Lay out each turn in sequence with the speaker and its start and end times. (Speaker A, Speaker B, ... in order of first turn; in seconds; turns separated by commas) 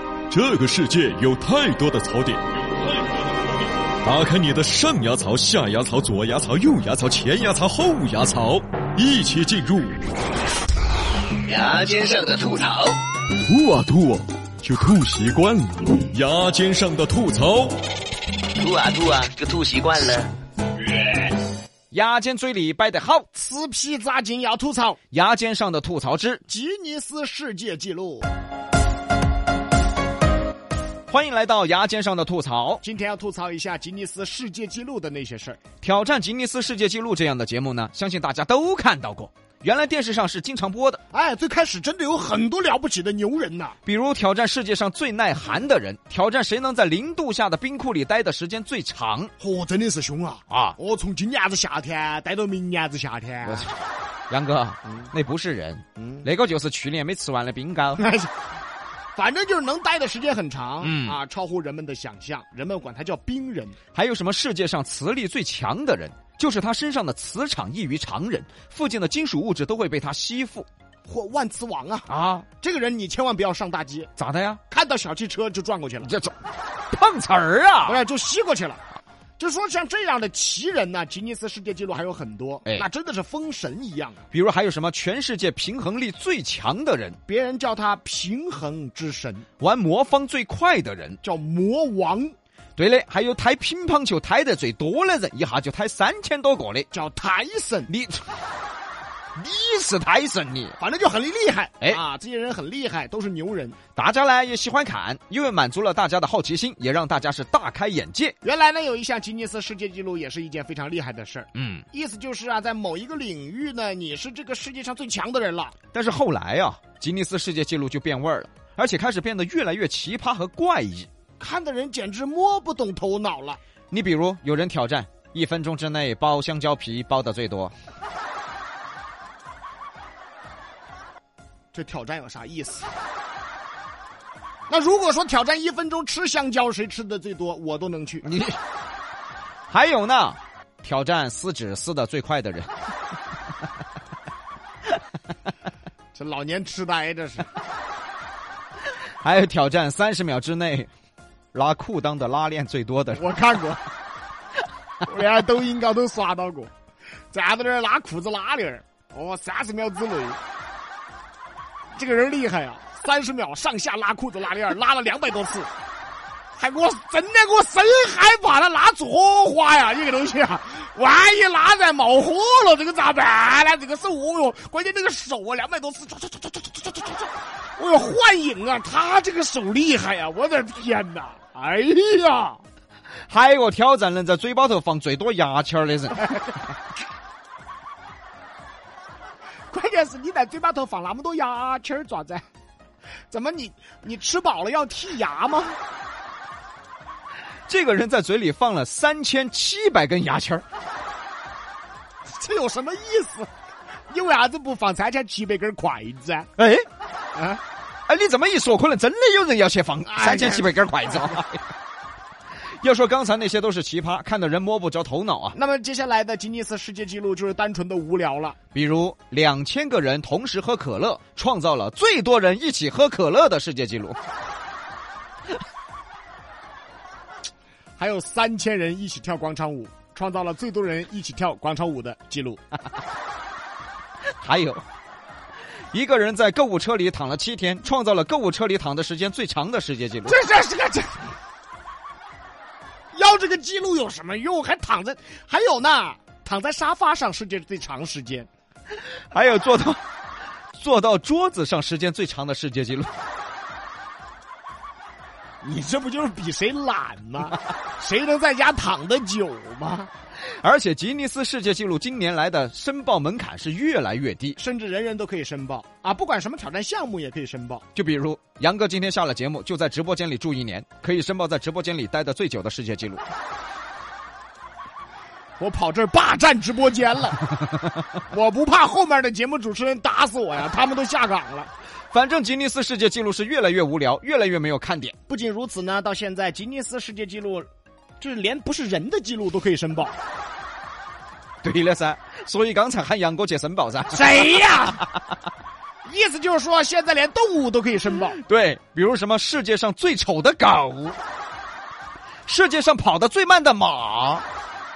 Speaker A: 0.3-2.4, Speaker A: 4.0-9.9, Speaker B: 11.5-12.9, Speaker A: 13.4-17.8, Speaker B: 18.6-20.3, Speaker C: 21.9-23.3, Speaker D: 23.3-25.0, Speaker C: 25.1-26.4, Speaker D: 26.5-28.3, Speaker C: 31.1-32.8, Speaker D: 32.8-35.6, Speaker C: 35.8-41.0, Speaker D: 41.1-43.8, Speaker C: 43.8-49.3, Speaker D: 49.4-53.7, Speaker C: 50.5-50.8, Speaker C: 53.4-53.7, Speaker C: 54.3-58.0, Speaker D: 56.0-56.2, Speaker D: 58.0-58.3, Speaker D: 59.1-63.8, Speaker C: 60.8-61.2, Speaker C: 63.9-70.7, Speaker D: 71.0-74.1, Speaker C: 72.1-72.5, Speaker C: 74.2-74.6, Speaker D: 74.7-76.1, Speaker C: 76.0-76.3, Speaker C: 76.9-78.0, Speaker D: 77.8-78.8, Speaker D: 79.4-84.2, Speaker C: 84.3-87.2, Speaker D: 87.2-89.4, Speaker C: 89.6-91.2, Speaker D: 91.2-92.3, Speaker C: 92.8-96.9, Speaker D: 96.9-97.9, Speaker C: 97.9-98.2, Speaker C: 99.4-100.8, Speaker D: 100.8-103.8, Speaker C: 104.0-108.3, Speaker D: 108.4-115.7, Speaker C: 111.5-111.8, Speaker C: 115.9-121.1, Speaker D: 121.4-123.6, Speaker C: 123.9-127.7, Speaker D: 131.7-132.9, Speaker D: 134.7-138.3, Speaker C: 138.2-138.6, Speaker C: 139.7-142.7, Speaker D: 146.1-147.5, Speaker C: 149.2-150.9, Speaker C: 151.5-153.2, Speaker D: 153.2-153.8, Speaker D: 155.0-156.7, Speaker D: 157.3-160.4, Speaker D: 161.9-165.7, Speaker D: 166.6-182.6, Speaker C: 183.3-186.2, Speaker D: 189.7-192.4, Speaker D: 193.3-195.8, Speaker C: 197.7-200.6, Speaker D: 202.3-203.5, Speaker D: 204.1-206.5, Speaker C: 206.6-206.8, Speaker D: 207.3-207.6, Speaker C: 208.1-211.6, Speaker D: 210.1-211.4, Speaker C: 212.8-215.6, Speaker D: 215.5-218.6, Speaker C: 218.7-224.2, Speaker D: 228.0-232.6, Speaker C: 234.4-234.8, Speaker C: 235.9-240.4, Speaker D: 240.3-241.3, Speaker D: 243.1-248.5, Speaker C: 249.3-250.0, Speaker C: 250.8-253.1, Speaker D: 255.6-260.1, Speaker C: 260.4-264.6, Speaker D: 264.6-267.8, Speaker C: 267.9-273.2, Speaker D: 275.6-277.4, Speaker D: 278.3-281.7, Speaker C: 282.1-285.1, Speaker D: 285.3-287.7, Speaker D: 288.2-290.1, Speaker C: 291.6-294.9, Speaker D: 294.1-295.1, Speaker D: 296.0-298.4, Speaker C: 298.1-301.2, Speaker C: 302.4-304.4